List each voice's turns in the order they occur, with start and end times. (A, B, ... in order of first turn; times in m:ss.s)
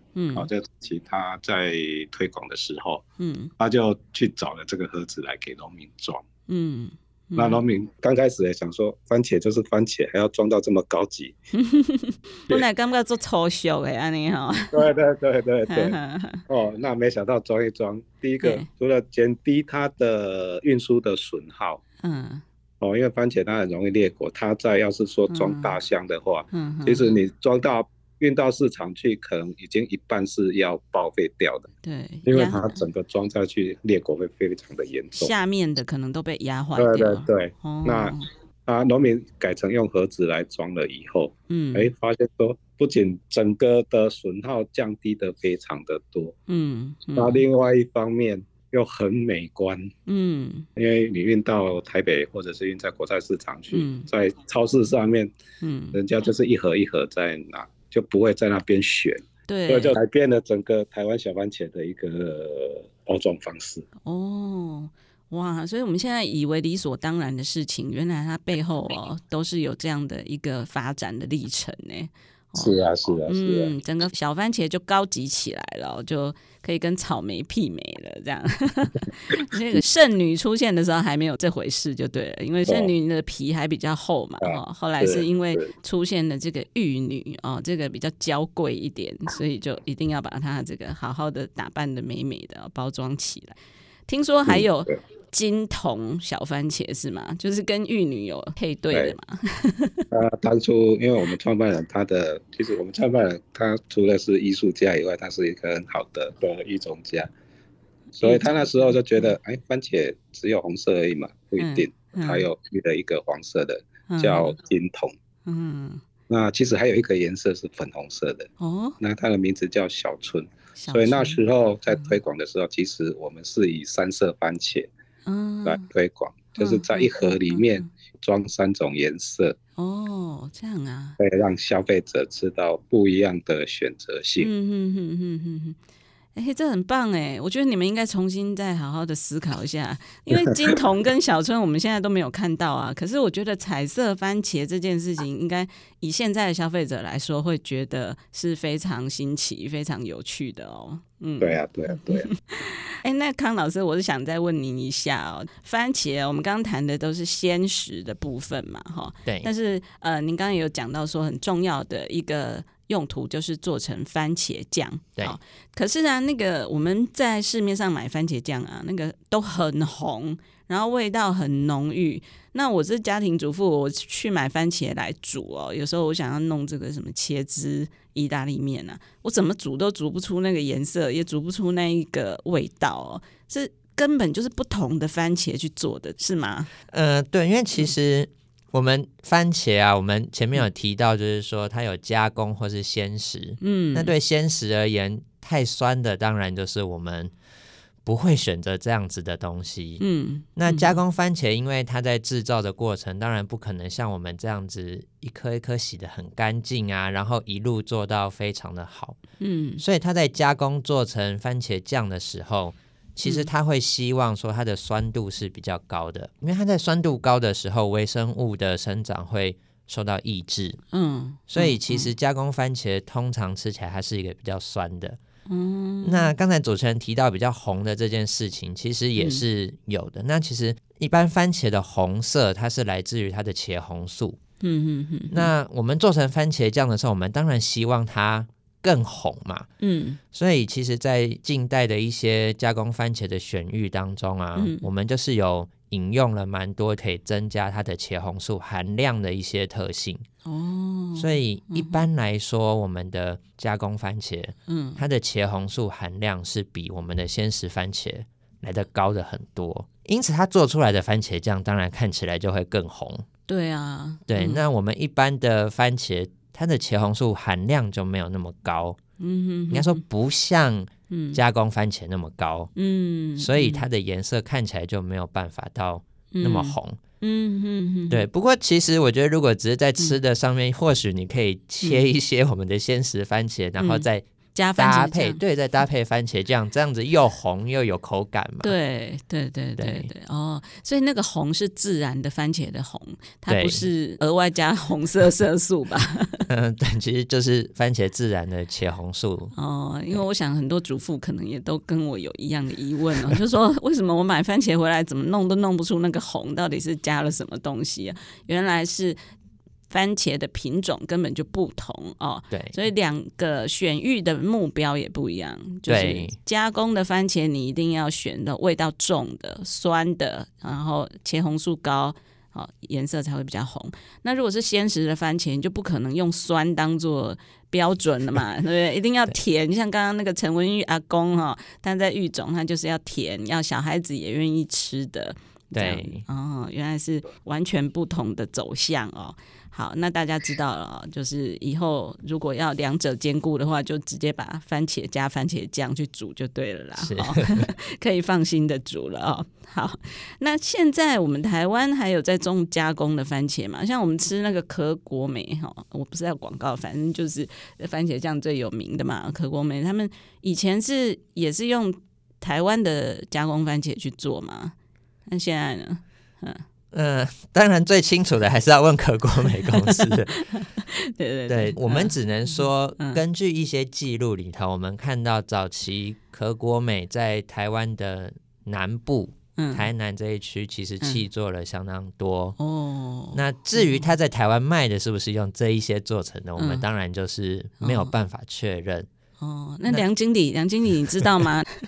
0:00.2-0:00.5 A
0:00.3-0:03.0 B
0:03.2-0:03.5 A
0:03.6-0:06.2 B
0:06.5-0:07.6 A
0:07.4-0:11.4 B
0:11.6-0:14.9 A
0:14.7-0:16.0 B
0:15.7-0:16.4 A
0:16.5-0:21.8 B
0:18.4-0:18.7 A
0:22.0-0:22.4 A
0:22.8-0:31.7 B
0:25.3-0:25.8 A
0:26.5-0:27.2 A
0:31.8-0:32.7 A
0:32.3-0:35.3 B
0:35.1-0:38.2 A
0:36.8-0:46.4 B
0:41.5-0:41.9 A
0:46.5-0:47.4 A
0:47.1-0:49.9 B
0:50.1-0:50.7 A
0:50.8-0:55.3 B
0:53.7-0:54.1 A
0:55.6-0:56.0 A
0:55.9-1:03.9 B
0:59.5-1:00.0 A
1:04.0-1:12.7 A
1:12.6-1:13.7 B
1:13.3-1:40.1 A
1:22.6-1:22.9 B
1:24.4-1:25.7 B
1:34.4-1:34.9 B
1:40.1-1:47.3 B
1:48.2-1:55.1 B
1:48.2-1:49.4 A
1:51.6-1:52.5 A
1:54.1-1:54.6 A
1:55.4-1:56.0 A
1:56.3-1:58.5 B
1:58.6-1:59.0 A
1:59.0-2:04.9 B
2:00.8-2:01.4 A
2:05.3-2:05.9 A
2:05.6-2:09.6 B
2:06.6-2:07.9 A
2:09.8-2:11.2 A
2:11.2-2:14.5 B
2:14.4-2:15.8 A
2:16.4-2:31.6 A
2:31.4-2:32.3 B
2:32.2-3:06.7 A
2:39.2-2:39.5 C
3:06.9-3:17.3 C
3:13.6-3:14.1 A
3:18.0-3:20.0 C
3:20.0-3:21.0 A
3:20.6-3:29.2 C
3:29.4-3:29.8 A
3:29.8-3:40.8 C
3:33.2-3:33.5 A
3:40.9-3:42.1 A
3:41.5-3:45.2 C
3:45.5-3:46.3 A
3:46.0-3:54.4 C
3:49.2-3:49.4 A
3:54.6-3:55.5 A
3:55.3-3:59.7 C
3:59.8-4:00.2 A
4:00.3-4:10.2 C
4:04.6-4:04.9 A
4:10.4-4:12.1 A
4:11.2-4:23.2 C
4:14.7-4:15.0 A
4:23.5-4:24.6 A
4:24.3-4:29.0 C
4:29.2-4:30.0 A
4:29.7-4:32.7 C
4:31.1-4:31.4 A
4:32.8-4:33.8 A
4:33.4-4:37.0 C
4:36.3-4:38.2 A
4:38.1-4:44.2 C
4:43.8-4:45.4 A
4:44.8-4:48.7 C
4:48.6-4:56.5 A
4:49.8-4:50.1 C
4:53.5-4:53.9 C
4:56.5-4:59.5 C
4:59.6-5:09.2 A
5:09.9-6:04.7 A
5:12.5-5:12.8 C
5:15.9-5:16.4 C
5:35.7-5:36.2 C
5:47.0-5:47.6 C
6:05.3-6:06.6 A
6:06.9-6:10.4 C
6:09.7-6:13.2 A
6:11.5-6:22.6 C
6:19.6-6:19.9 A
6:22.6-6:24.0 A
6:23.3-6:29.1 C
6:26.6-6:26.9 A
6:27.8-6:28.1 A
6:29.4-6:31.8 A